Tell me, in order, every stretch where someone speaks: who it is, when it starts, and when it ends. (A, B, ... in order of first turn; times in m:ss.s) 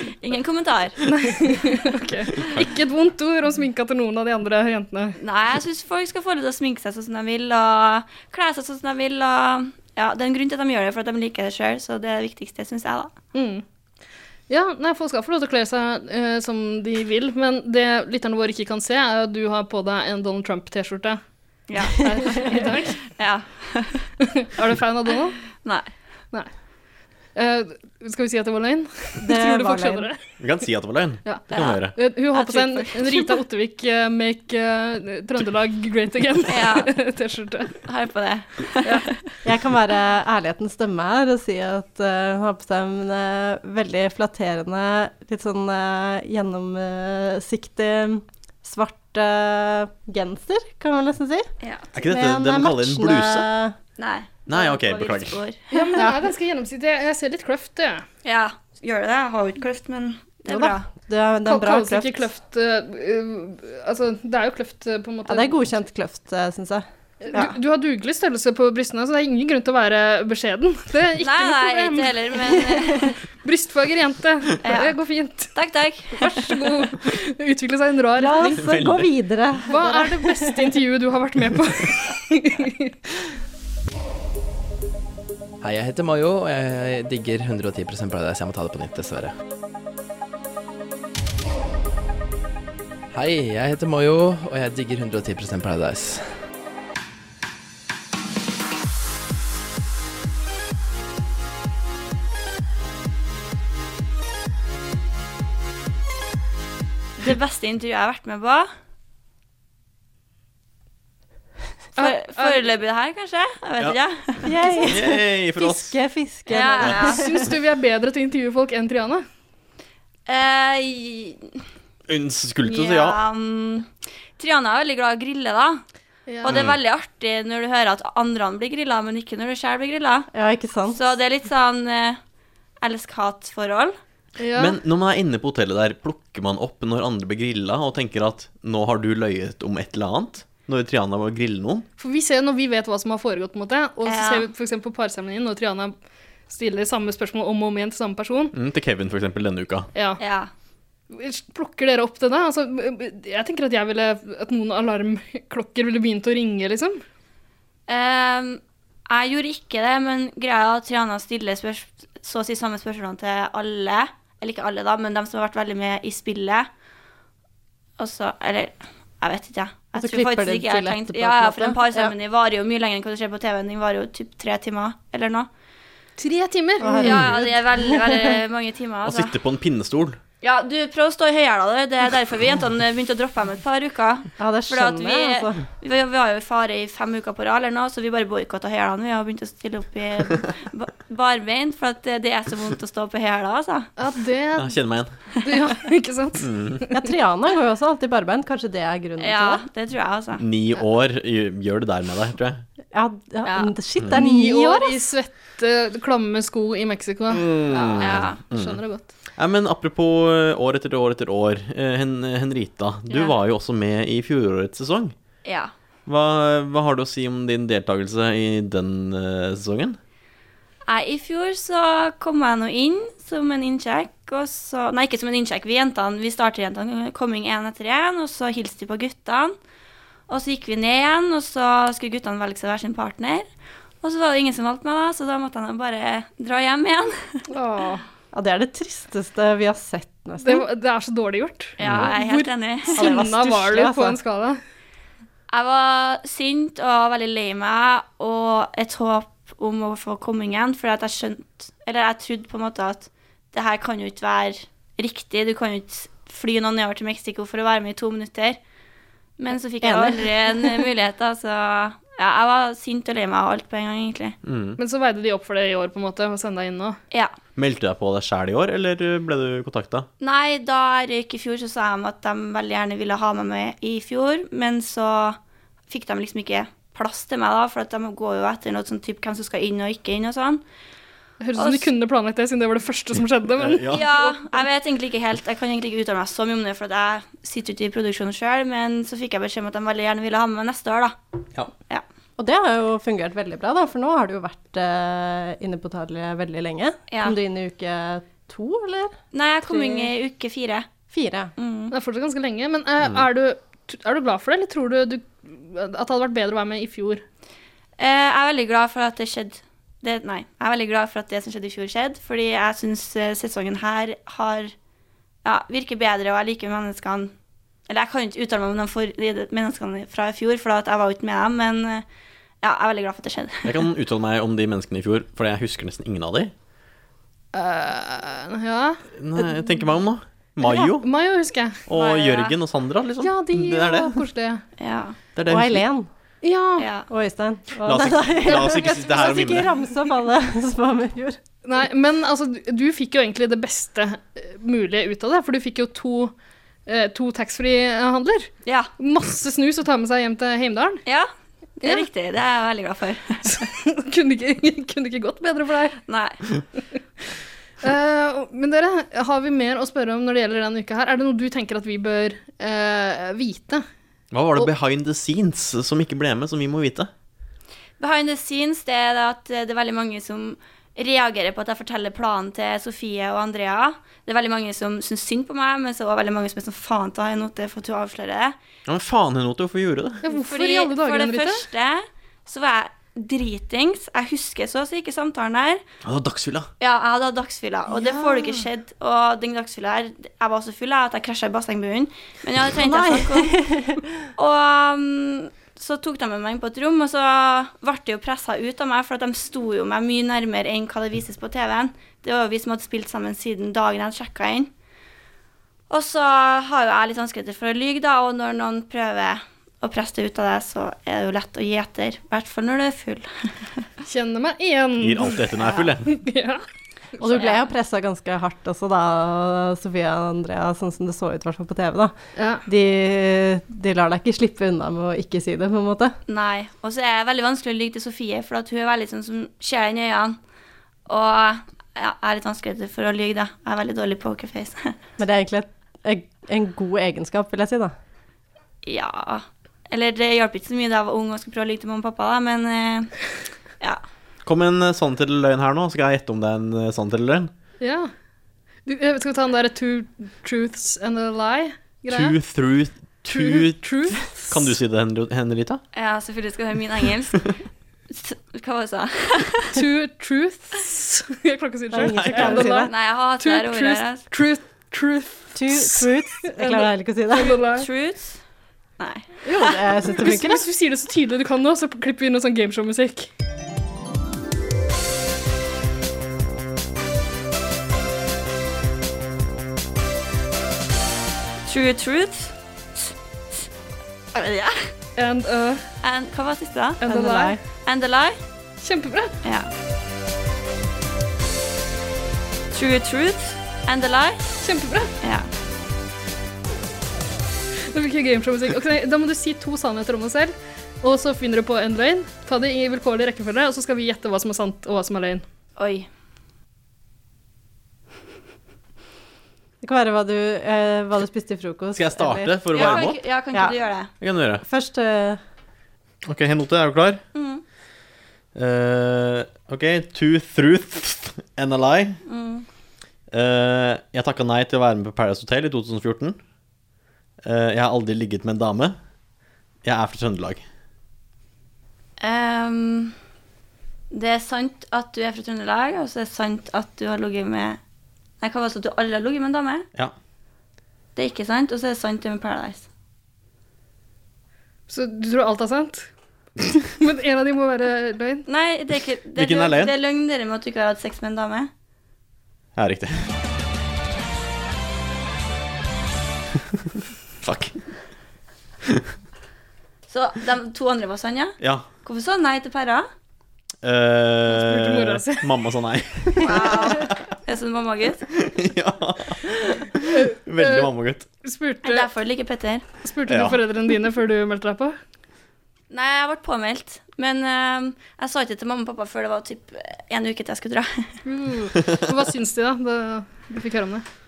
0:00.2-0:01.0 A
0:01.0-0:05.2 B
0:05.2-0:13.1 A
0:13.3-0:13.6 B
0:14.5-0:21.2 B
0:21.7-0:24.1 A
0:22.0-0:23.0 B
0:24.4-0:25.4 B
0:25.6-0:25.9 A
0:27.3-0:30.2 B
0:29.2-0:30.1 C
0:30.4-0:31.9 D
0:31.2-0:37.7 B
0:31.5-0:33.3 A
0:36.5-0:36.9 A
0:37.8-0:39.1 A
0:38.8-0:39.1 B
0:39.4-0:53.7 C
0:51.6-0:51.9 A
0:51.9-0:53.5 D
0:54.0-0:55.9 A
0:54.5-0:55.4 D
0:55.7-0:58.0 B
0:55.9-0:56.2 C
0:58.2-1:00.9 A
1:00.4-1:02.2 C
1:01.4-1:05.7 B
1:05.3-1:07.5 C
1:07.2-1:15.5 B
1:11.2-1:13.1 A
1:14.6-1:14.9 A
1:15.5-1:16.5 A
1:16.1-1:18.9 B
1:18.2-1:20.7 C
1:18.5-1:19.1 D
1:19.7-1:22.9 B
1:25.6-1:29.3 E
1:33.1-1:36.3 E
1:47.2-1:48.7 A
1:52.0-1:52.6 B
1:52.0-1:54.5 A
1:54.4-1:57.4 C
1:54.8-1:56.0 D
1:56.5-1:57.2 A
1:57.0-1:59.2 B
2:00.3-2:01.6 A
2:02.1-2:03.2 D
2:02.6-2:05.8 A
2:06.3-2:06.6 B
2:06.4-2:10.3 A
2:06.5-2:06.8 D
2:10.3-2:11.0 C
2:10.9-2:12.2 A
2:12.8-2:13.9 A
2:14.4-2:14.8 B
2:14.6-2:21.8 D
2:22.0-2:25.9 B
2:24.0-2:24.5 A
2:26.5-2:28.5 B
2:28.5-2:29.9 D
2:29.9-2:30.2 B
2:30.2-2:30.5 A
2:31.1-2:37.0 B
2:37.9-2:46.7 A
2:48.0-2:55.5 A
2:49.9-2:52.1 C
2:56.2-2:57.3 B
2:56.8-2:58.4 C
2:56.8-2:59.3 A
2:59.0-3:00.2 D
3:00.4-3:13.9 A
3:04.4-3:05.7 C
3:14.0-3:14.8 B
3:14.6-3:15.1 D
3:15.4-3:17.0 B
3:16.4-3:16.8 D
3:16.9-3:19.6 C
3:19.2-3:20.4 A
3:20.4-3:22.6 D
3:22.9-3:25.0 C
3:23.4-3:23.7 A
3:24.1-3:29.1 B
3:27.3-3:28.8 D
3:27.7-3:28.4 A
3:29.4-3:35.1 D
3:33.1-3:33.3 A
3:35.4-3:35.7 A
3:36.0-3:40.0 D
3:40.9-3:49.5 A
3:50.3-3:53.4 A
3:54.0-3:57.4 A
3:57.5-3:58.0 B
3:58.3-4:00.6 C
4:00.4-4:04.6 B
4:01.8-4:03.3 A
4:01.8-4:02.1 D
4:02.9-4:04.2 C
4:05.5-4:18.6 A
4:19.4-4:24.4 A
4:19.8-4:20.8 C
4:24.4-4:24.8 D
4:24.8-4:27.0 B
4:27.6-4:30.1 D
4:30.2-4:35.4 A
4:35.9-4:40.6 A
4:41.4-4:44.2 B
4:41.6-4:41.9 A
4:43.6-4:44.0 D
4:43.9-4:51.1 A
4:52.4-5:00.1 C
4:57.1-4:57.4 A
4:59.3-5:00.9 A
5:01.1-5:01.5 C
5:01.6-5:01.9 A
5:01.9-5:07.2 B
5:08.0-5:14.7 A
5:15.4-5:17.3 A
5:17.9-5:22.0 A
5:22.6-5:23.8 A
5:23.6-5:26.5 D
5:27.5-5:29.0 B
5:29.2-5:31.0 D
5:30.6-5:31.8 B
5:31.9-5:34.2 D
5:31.9-5:32.5 A
5:33.2-5:34.6 B
5:34.8-5:35.2 A
5:35.3-5:35.8 D
5:35.4-5:36.1 C
5:36.4-5:36.9 B
5:36.8-5:37.1 A
5:37.1-5:41.4 C
5:37.8-5:39.7 D
5:38.4-5:39.4 B
5:41.6-5:46.3 B
5:46.8-5:51.0 B
5:48.6-5:48.9 A
5:51.0-5:53.6 A
5:53.5-5:56.0 B
5:56.1-5:56.4 A
5:57.8-6:03.8 B
6:04.3-6:07.1 D
6:08.0-6:18.6 A
6:18.8-6:20.2 D
6:20.2-6:21.6 B
6:20.3-6:25.8 A
6:26.0-6:26.7 D
6:26.8-6:33.5 A
6:27.9-6:28.6 C
6:32.7-6:34.0 C
6:34.3-6:44.7 A
6:45.9-6:53.8 A
6:54.0-6:56.6 B
6:55.0-6:56.1 D
6:57.2-7:02.1 C
7:02.4-7:02.6 B
7:02.6-7:06.2 C
7:06.3-7:10.4 A
7:11.1-7:14.9 A
7:15.2-7:17.9 C
7:18.8-7:23.1 A
7:24.4-7:27.5 D
7:27.8-7:28.1 B
7:28.8-7:32.4 B
7:32.1-7:35.8 D
7:33.3-7:34.6 B
7:35.9-7:37.5 A
7:38.1-7:39.7 A
7:39.7-7:47.9 B
7:41.9-7:42.9 C
7:42.0-7:42.6 D
7:42.8-7:44.2 A
7:45.5-7:47.6 C
7:47.8-7:48.4 A
7:49.0-7:49.3 A
7:49.4-7:50.6 C
7:50.2-7:53.3 B
8:01.7-8:03.1 A
8:04.3-8:04.9 A
8:05.2-8:05.9 B
8:06.0-8:07.0 A
8:07.0-8:07.6 B
8:07.0-8:07.6 C
8:07.8-8:08.4 A
8:08.8-8:09.3 B
8:09.4-8:09.7 A
8:12.7-8:14.6 A
8:14.6-8:15.1 B
8:15.2-8:15.5 A
8:17.9-8:25.4 B
8:25.8-8:26.1 A
8:29.8-8:33.7 C
8:31.9-8:33.2 D
8:32.7-8:34.1 A
8:34.2-8:34.6 D
8:34.6-8:35.4 C
8:36.2-8:37.2 D
8:37.3-8:37.6 A
8:38.5-8:42.2 D
8:42.2-8:42.6 A
8:43.3-8:46.4 D
8:47.4-8:49.0 D
8:49.8-8:50.6 D
8:52.2-8:53.1 A
8:54.1-8:57.8 A
8:58.4-8:59.9 A
9:01.2-9:02.9 A
9:04.9-9:06.1 B
9:06.8-9:08.4 B
9:08.5-9:11.7 A
9:09.4-9:09.9 D
9:12.8-9:13.3 D
9:17.4-9:17.8 D
9:20.1-9:23.1 A
9:21.6-9:21.8 D
9:23.8-9:27.1 D
9:24.5-9:25.5 B
9:26.4-9:28.2 A
9:28.4-9:31.2 D
9:30.1-9:30.9 B
9:31.4-9:32.1 B
9:31.8-9:32.8 A
9:33.0-9:35.0 B
9:33.3-9:33.6 D
9:35.9-9:41.2 A
9:41.2-9:44.0 B